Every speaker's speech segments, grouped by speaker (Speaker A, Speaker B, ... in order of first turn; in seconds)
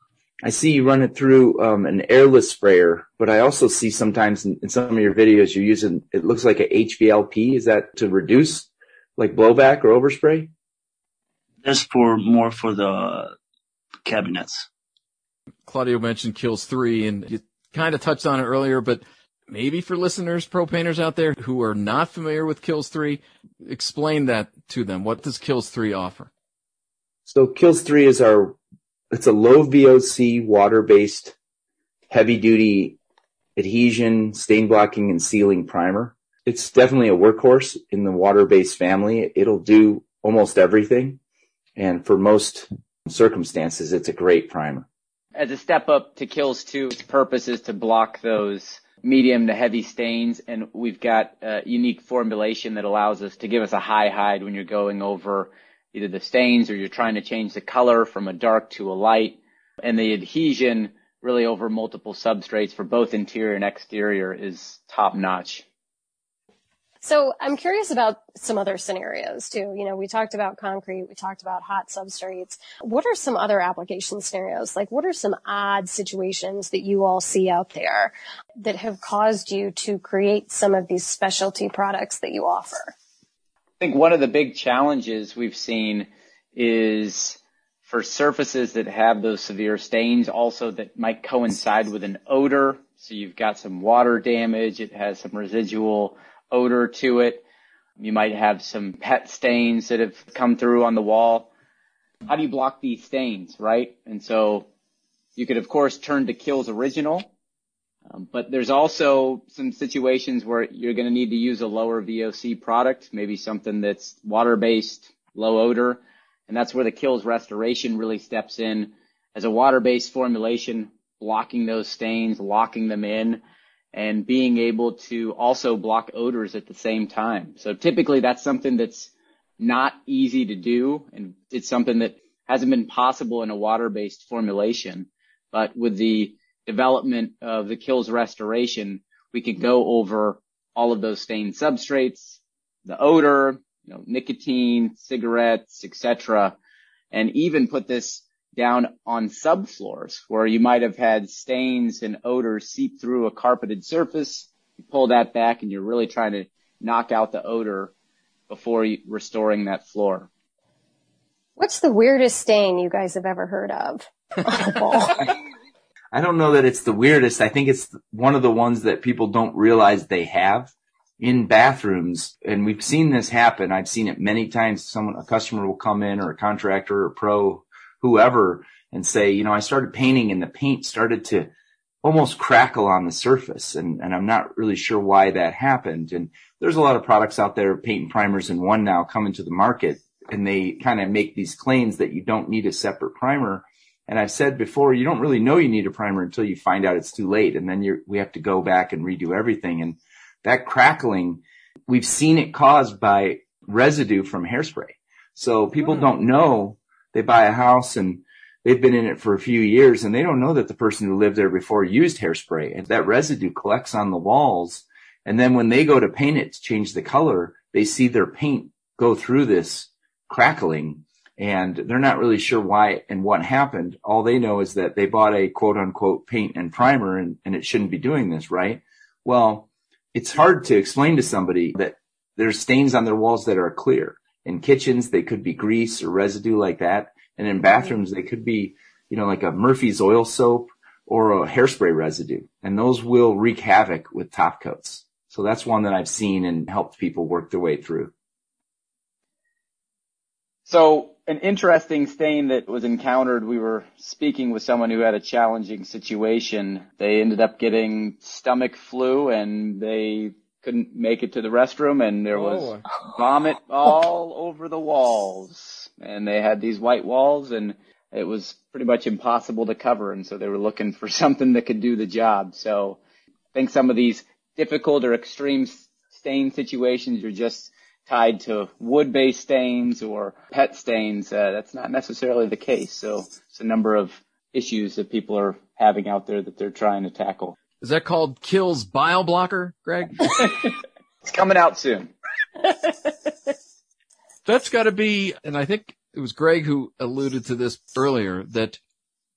Speaker A: 0.4-10.5, 27.3-28.6, 29.1-31.4, 32.1-33.0, 33.6-41.2, 41.8-44.9, 166.1-181.5, 182.0-248.1
Speaker B: 11.6-13.3, 14.1-14.7
Speaker C: 15.7-26.3, 287.8-290.4, 294.5-298.8
Speaker D: 45.4-65.7, 83.8-97.4, 98.0-101.5, 102.3-104.7, 105.4-107.3, 108.1-123.4, 123.9-146.6, 147.1-157.9, 158.5-160.3, 250.7-273.0, 273.6-287.6, 291.2-292.1
Speaker E: 67.0-82.9, 161.6-165.2